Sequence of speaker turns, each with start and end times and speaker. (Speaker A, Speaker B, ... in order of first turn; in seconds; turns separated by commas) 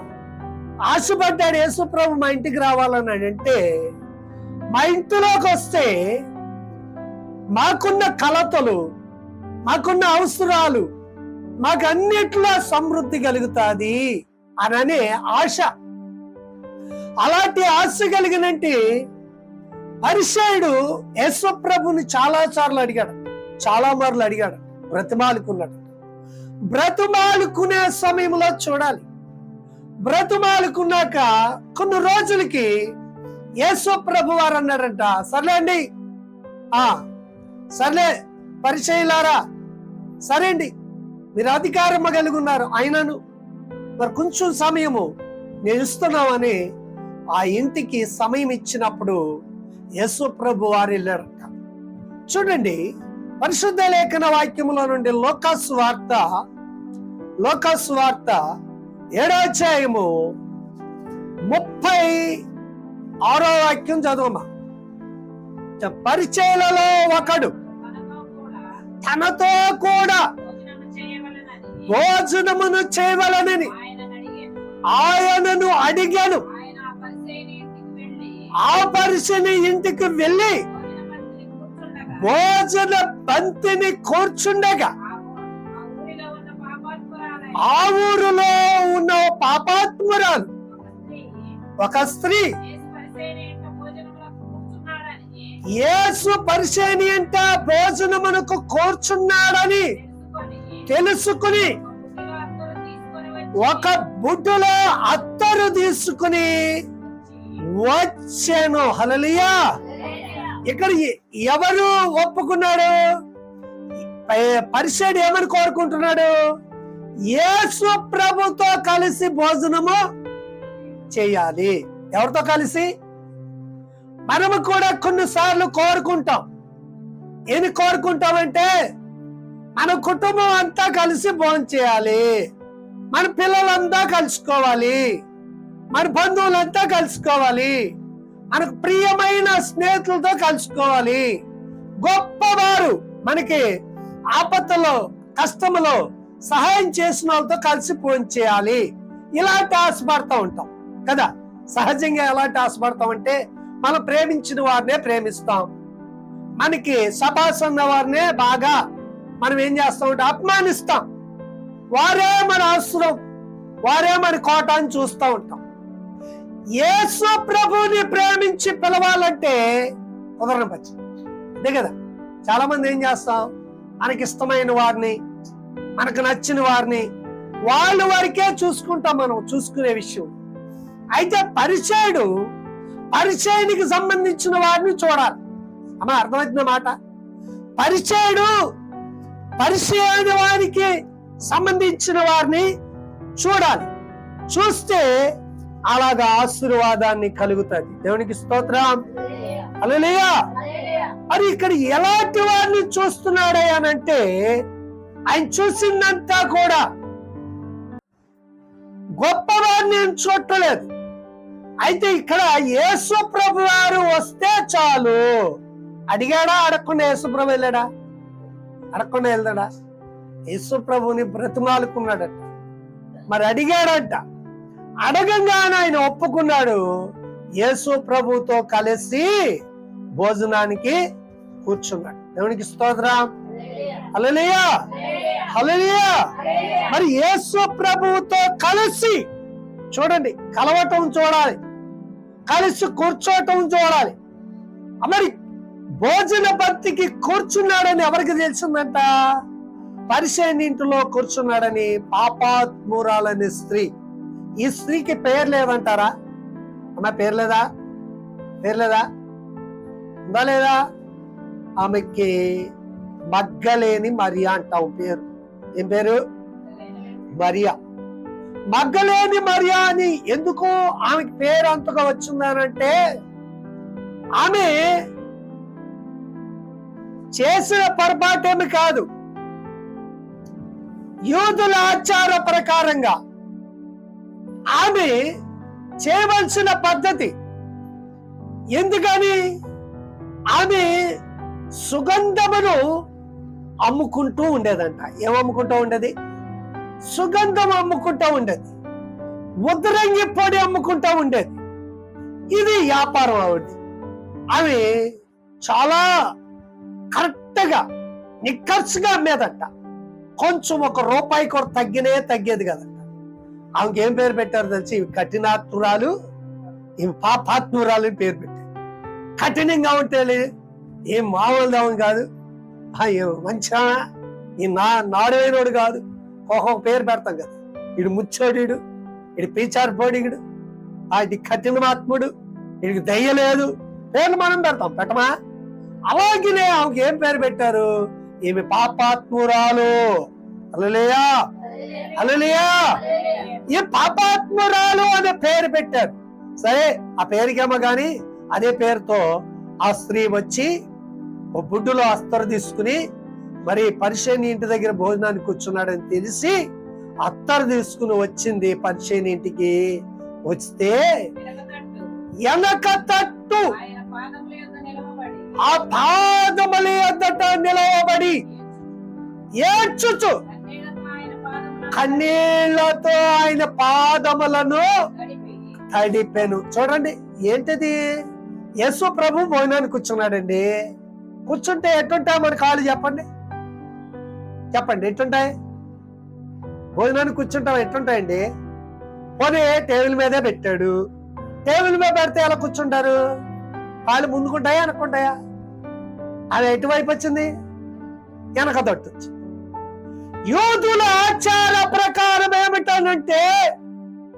Speaker A: 0.9-3.6, Speaker A: 4.7-5.9, Speaker A: 7.5-8.8, Speaker A: 9.7-10.9, Speaker A: 11.6-14.0, Speaker A: 14.6-15.7, Speaker A: 17.2-18.8, Speaker A: 20.0-25.8, Speaker A: 26.7-29.1, Speaker A: 30.0-32.7, Speaker A: 33.6-35.8, Speaker A: 36.7-37.0, Speaker A: 37.8-38.1, Speaker A: 38.6-39.4, Speaker A: 40.3-40.7, Speaker A: 41.4-43.2, Speaker A: 44.0-45.1, Speaker A: 45.6-46.6, Speaker A: 47.3-49.2, Speaker A: 50.0-51.5, Speaker A: 52.3-52.8, Speaker A: 53.4-56.2, Speaker A: 57.4-58.4, Speaker A: 59.2-60.3, Speaker A: 61.5-62.4, Speaker A: 63.3-64.5, Speaker A: 65.8-67.5, Speaker B: 67.3-68.7, Speaker A: 69.0-70.3, Speaker B: 70.4-71.9, Speaker A: 71.9-73.7, Speaker B: 73.6-74.5, Speaker A: 74.9-76.4, Speaker B: 76.5-78.4, Speaker A: 78.6-80.6, Speaker B: 80.7-82.3, Speaker A: 82.2-84.9, Speaker B: 85.0-87.7, Speaker A: 87.6-90.5, Speaker B: 90.7-91.5, Speaker A: 91.8-92.5, Speaker B: 92.6-95.6, Speaker A: 95.7-100.0, Speaker B: 99.9-100.9, Speaker A: 100.9-101.8, Speaker B: 101.5-104.0, Speaker A: 103.5-106.5, Speaker B: 107.2-107.6, Speaker A: 107.7-109.6, Speaker B: 109.9-110.6, Speaker A: 110.6-113.0, Speaker A: 114.2-116.3, Speaker A: 117.3-120.0, Speaker A: 121.1-122.9, Speaker A: 124.3-126.4, Speaker A: 127.5-128.7, Speaker A: 129.8-132.3, Speaker A: 133.1-135.1, Speaker A: 135.9-137.8, Speaker A: 138.5-141.2, Speaker A: 142.0-143.6, Speaker A: 144.3-148.8, Speaker A: 149.4-155.7, Speaker A: 156.6-158.8, Speaker A: 159.4-161.1, Speaker A: 161.9-163.2, Speaker A: 163.9-165.6, Speaker A: 166.8-169.6, Speaker A: 170.4-171.0, Speaker A: 171.6-171.9, Speaker A: 172.4-173.5, Speaker A: 174.0-175.2, Speaker A: 176.0-177.1, Speaker A: 177.7-180.3, Speaker A: 181.2-182.3, Speaker A: 183.1-185.4, Speaker A: 186.0-186.9, Speaker A: 187.8-188.5, Speaker A: 189.6-190.9, Speaker A: 191.4-192.7, Speaker A: 193.4-193.9, Speaker A: 194.5-195.3, Speaker A: 195.9-200.3, Speaker A: 201.3-204.6, Speaker A: 205.3-206.8, Speaker A: 209.2-210.9, Speaker A: 211.8-215.2, Speaker A: 216.1-217.8, Speaker A: 218.9-219.7, Speaker A: 220.5-222.5, Speaker A: 223.3-224.2, Speaker A: 225.0-226.8, Speaker A: 227.6-229.6, Speaker A: 230.2-231.0, Speaker A: 231.6-233.3, Speaker A: 234.0-234.9, Speaker B: 234.9-235.5, Speaker A: 235.4-239.2, Speaker B: 236.4-236.9, Speaker A: 239.9-241.6, Speaker A: 242.5-244.2, Speaker A: 245.0-245.3, Speaker A: 246.0-249.1, Speaker A: 250.1-253.9, Speaker A: 254.6-256.1, Speaker A: 257.0-257.6, Speaker A: 258.6-259.1, Speaker A: 260.3-260.8, Speaker A: 261.8-262.7, Speaker A: 263.3-265.2, Speaker A: 265.8-266.2, Speaker B: 266.8-267.1, Speaker A: 267.3-267.8, Speaker A: 268.7-272.9, Speaker A: 274.4-274.8, Speaker A: 277.3-279.1, Speaker A: 281.3-283.1, Speaker A: 284.7-285.2, Speaker A: 286.0-287.3, Speaker A: 288.7-289.4, Speaker A: 290.5-290.9, Speaker A: 291.8-292.8, Speaker A: 293.8-296.1, Speaker A: 297.1-298.7, Speaker A: 299.6-301.6, Speaker A: 302.5-303.8, Speaker A: 304.5-304.9, Speaker A: 305.6-306.0, Speaker A: 307.1-307.8, Speaker A: 308.4-309.7, Speaker A: 310.4-313.0, Speaker A: 313.8-316.1, Speaker A: 317.0-318.6, Speaker A: 319.4-320.5, Speaker A: 321.1-322.3, Speaker A: 323.0-324.0, Speaker A: 324.6-328.8, Speaker A: 329.4-330.4, Speaker A: 331.1-332.3, Speaker A: 332.8-335.3, Speaker A: 336.1-337.9, Speaker A: 338.5-340.1, Speaker A: 340.7-341.3, Speaker B: 341.8-342.3, Speaker A: 342.1-343.0, Speaker B: 342.9-343.6, Speaker A: 343.7-349.2, Speaker A: 349.8-350.7, Speaker A: 351.6-353.0, Speaker A: 353.7-356.6, Speaker A: 357.2-359.9, Speaker A: 360.5-361.0, Speaker B: 361.4-362.2, Speaker A: 362.4-363.7, Speaker B: 363.7-365.6, Speaker A: 365.6-368.4, Speaker B: 368.5-368.8, Speaker A: 369.6-370.4, Speaker B: 370.4-372.5, Speaker A: 371.9-374.9, Speaker B: 375.1-375.7, Speaker A: 375.9-378.0, Speaker A: 378.8-380.7, Speaker A: 381.5-383.2, Speaker A: 384.7-385.5, Speaker A: 386.9-388.4, Speaker A: 389.4-390.9, Speaker A: 391.6-393.1, Speaker A: 394.1-395.3, Speaker A: 396.5-397.5, Speaker A: 398.6-399.3, Speaker A: 400.5-403.5